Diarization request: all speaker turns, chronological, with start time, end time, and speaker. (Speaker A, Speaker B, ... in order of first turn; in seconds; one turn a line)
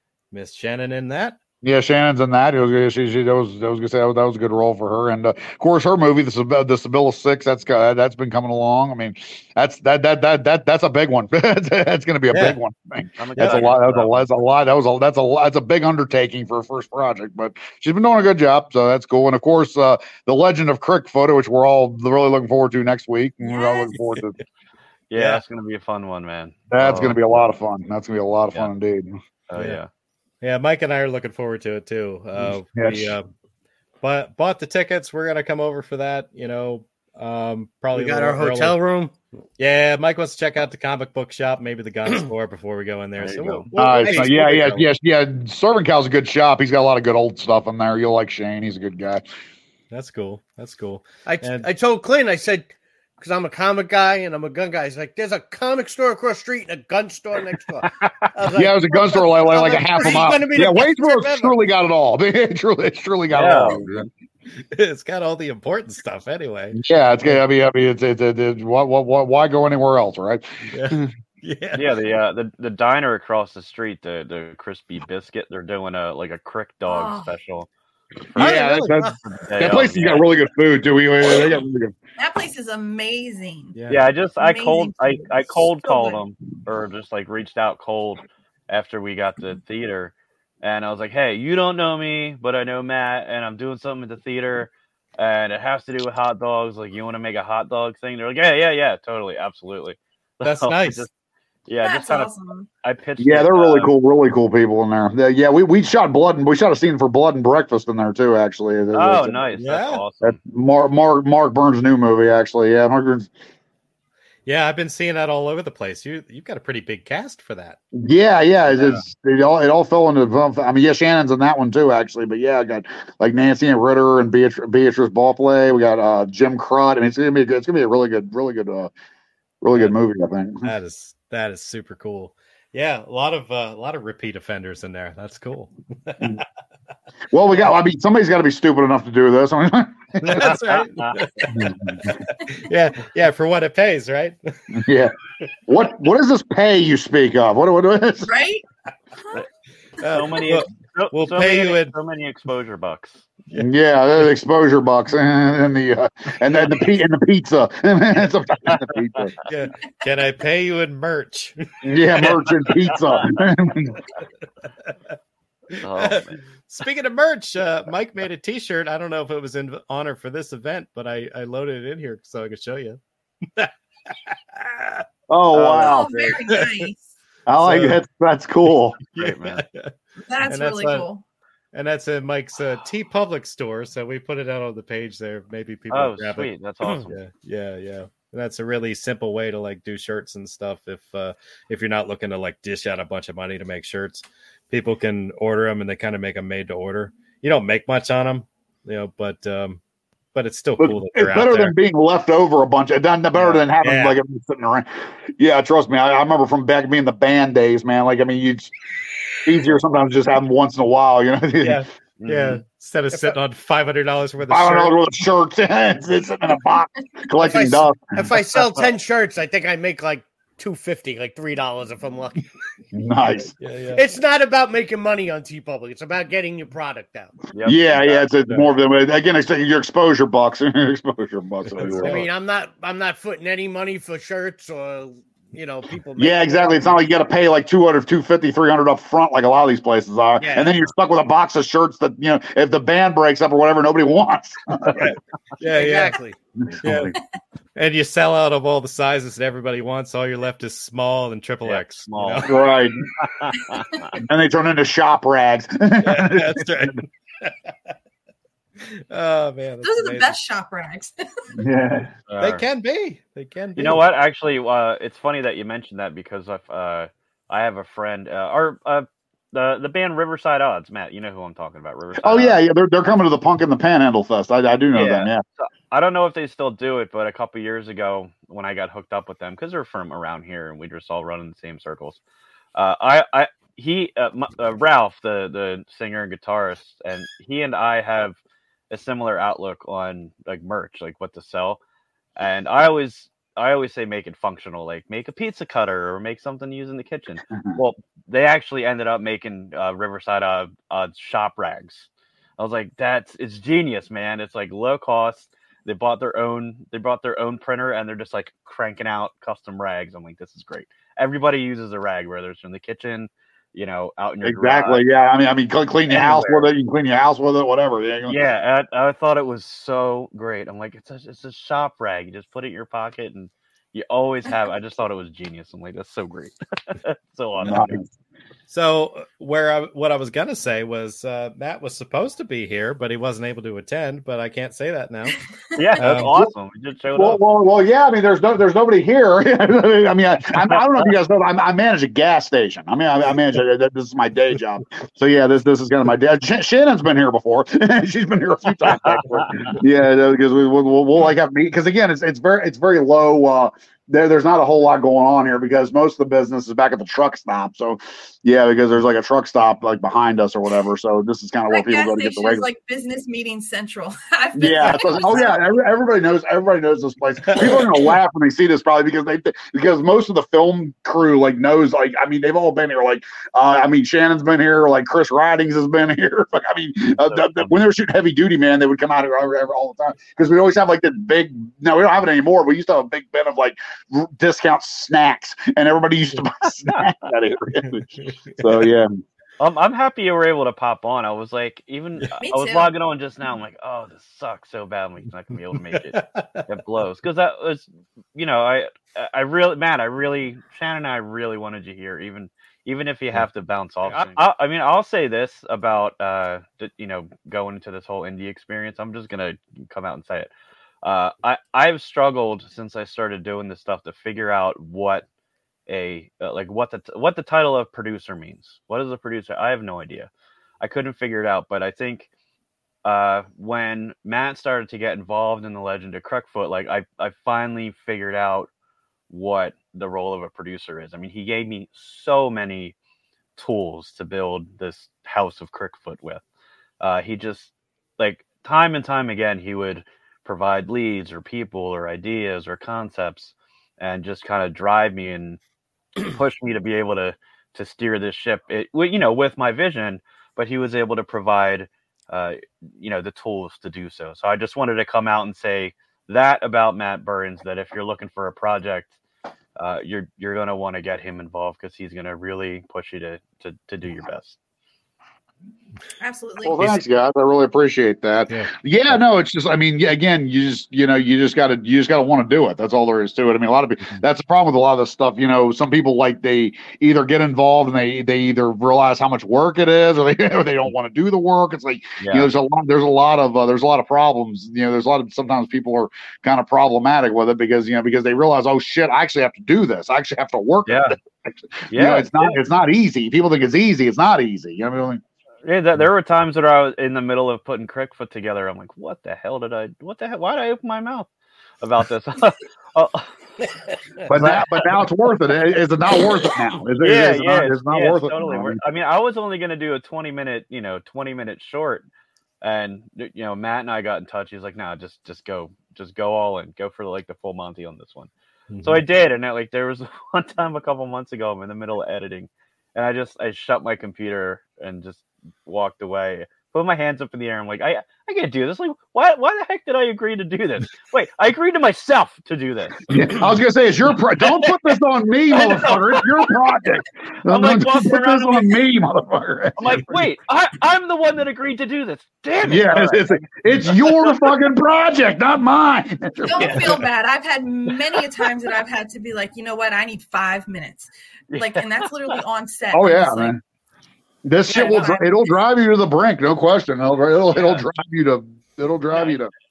Speaker A: 0.3-1.4
Speaker B: 1.6-24.4
Speaker A: 12.3-12.6
Speaker C: 13.2-14.3
Speaker D: 23.4-23.9
Speaker C: 25.1-27.4
Speaker A: 25.1-25.4
Speaker B: 26.7-29.2
Speaker C: 29.5-29.9
Speaker A: 30.4-33.3
Speaker B: 32.4-33.1
Speaker A: 34.0-38.8
Speaker E: 37.9-39.1
Speaker A: 39.6-44.9
Speaker C: 43.2-43.6
Speaker E: 43.7-44.3
Speaker B: 43.7-49.2
Speaker A: 49.9-51.7
Speaker E: 51.2-61.6
Speaker B: 58.5-64.1
Speaker C: 63.3-63.9
Speaker A: 64.7-66.8
Speaker B: 66.7-71.1
Speaker A: 70.7-71.8
Speaker C: 71.7-77.7
Speaker D: 76.9-77.3
Speaker C: 78.2-78.7
Speaker B: 78.3-81.9
Speaker A: 78.4-79.0
Speaker E: 78.4-79.1
Speaker C: 79.2-80.3
Speaker D: 82.2-83.8
Speaker A: 83.7-84.1
Speaker C: 83.9-101.1
Speaker D: 84.4-86.2
Speaker A: 100.4-101.1
Speaker C: 101.7-102.3
Speaker D: 101.8-102.7
Speaker C: 102.8-103.9
Speaker B: 103.2-109.4
Speaker C: 108.9-110.4
Speaker A: 109.6-110.0
Speaker B: 110.2-113.3
Speaker A: 114.5-117.8
Speaker B: 117.9-128.9
Speaker C: 118.7-119.0
Speaker B: 129.6-130.7
Speaker A: 130.6-136.3
Speaker B: 137.3-140.5
Speaker A: 140.2-144.6
Speaker C: 140.4-141.2
Speaker B: 141.5-142.2
Speaker B: 144.7-148.3
Speaker D: 148.2-148.6
Speaker D: 149.2-149.4
Speaker A: 150.0-151.9
Speaker C: 150.0-153.3
Speaker B: 153.6-159.3
Speaker C: 158.7-159.2
Speaker A: 159.5-161.6
Speaker B: 161.8-164.0
Speaker C: 162.9-163.2
Speaker A: 165.7-173.0
Speaker C: 165.8-166.4
Speaker A: 173.6-175.0
Speaker B: 175.3-176.4
Speaker C: 175.5-176.0
Speaker D: 175.8-177.1
Speaker A: 176.5-176.8
Speaker B: 177.5-179.0
Speaker A: 177.6-178.0
Speaker A: 179.1-179.9
Speaker C: 179.2-179.6
Speaker D: 180.2-181.2
Speaker A: 180.5-181.1
Speaker A: 181.7-186.5
Speaker C: 185.9-187.2
Speaker A: 187.1-199.8
Speaker A: 200.3-201.8
Speaker B: 200.8-208.7
Speaker A: 203.4-204.2
Speaker B: 209.4-211.8
Speaker A: 211.6-214.9
Speaker C: 212.2-212.6
Speaker B: 214.5-218.3
Speaker E: 217.4-222.4
Speaker B: 222.9-223.5
Speaker A: 223.6-224.0
Speaker E: 223.9-227.3
Speaker C: 227.5-228.2
Speaker B: 227.6-232.2
Speaker A: 231.7-232.2
Speaker E: 231.8-237.0
Speaker B: 236.2-245.1
Speaker E: 240.4-240.9
Speaker A: 244.9-246.2
Speaker E: 245.6-246.4
Speaker B: 246.6-247.2
Speaker A: 246.8-247.1
Speaker A: 247.8-252.5
Speaker C: 251.6-252.6
Speaker B: 252.4-253.1
Speaker C: 253.2-254.1
Speaker B: 254.2-257.0
Speaker A: 256.0-257.9
Speaker A: 258.8-260.3
Speaker D: 259.8-261.1
Speaker B: 261.6-262.1
Speaker C: 262.3-262.6
Speaker A: 262.4-264.0
Speaker C: 263.8-272.6
Speaker B: 272.2-275.4
Speaker C: 274.9-282.2
Speaker C: 282.7-288.4
Speaker C: 288.9-291.8
Speaker C: 292.4-315.0
Speaker B: 314.4-318.3
Speaker C: 316.1-316.7
Speaker C: 318.3-328.0
Speaker B: 327.6-328.1
Speaker A: 328.7-335.4
Speaker C: 335.8-337.4
Speaker A: 336.0-336.3
Speaker B: 337.1-362.6
Speaker C: 348.9-349.7
Speaker D: 361.7-365.6
Speaker B: 364.6-389.2
Speaker A: 367.5-367.9
Speaker C: 377.3-377.8
Speaker C: 386.8-387.1
Speaker A: 387.8-388.7
Speaker C: 389.6-410.5
Speaker D: 392.4-392.9
Speaker A: 395.9-396.6
Speaker A: 404.1-404.4
Speaker C: 411.0-415.2
Speaker C: 415.9-420.3
Speaker C: 420.8-422.3
Speaker C: 423.0-428.7
Speaker C: 429.3-432.9
Speaker C: 433.6-436.4
Speaker C: 437.0-445.6
Speaker C: 446.2-459.1
Speaker C: 459.8-464.6
Speaker D: 466.2-466.8
Speaker B: 466.6-495.2
Speaker C: 482.2-482.5
Speaker C: 490.9-491.1
Speaker C: 491.9-492.6
Speaker C: 495.6-501.3
Speaker C: 501.8-503.3
Speaker C: 504.2-504.6
Speaker B: 504.2-508.8
Speaker C: 507.0-512.1
Speaker C: 512.6-518.3
Speaker A: 518.7-519.0
Speaker C: 518.8-533.3
Speaker B: 533.1-540.2
Speaker C: 534.5-535.0
Speaker C: 535.5-536.5
Speaker C: 537.4-538.8
Speaker C: 539.8-544.5
Speaker B: 542.6-546.9
Speaker D: 546.4-553.6
Speaker A: 546.6-547.0
Speaker C: 551.5-552.4
Speaker B: 552.9-553.6
Speaker B: 554.4-559.5
Speaker D: 554.7-555.5
Speaker C: 557.5-557.9
Speaker C: 559.1-559.4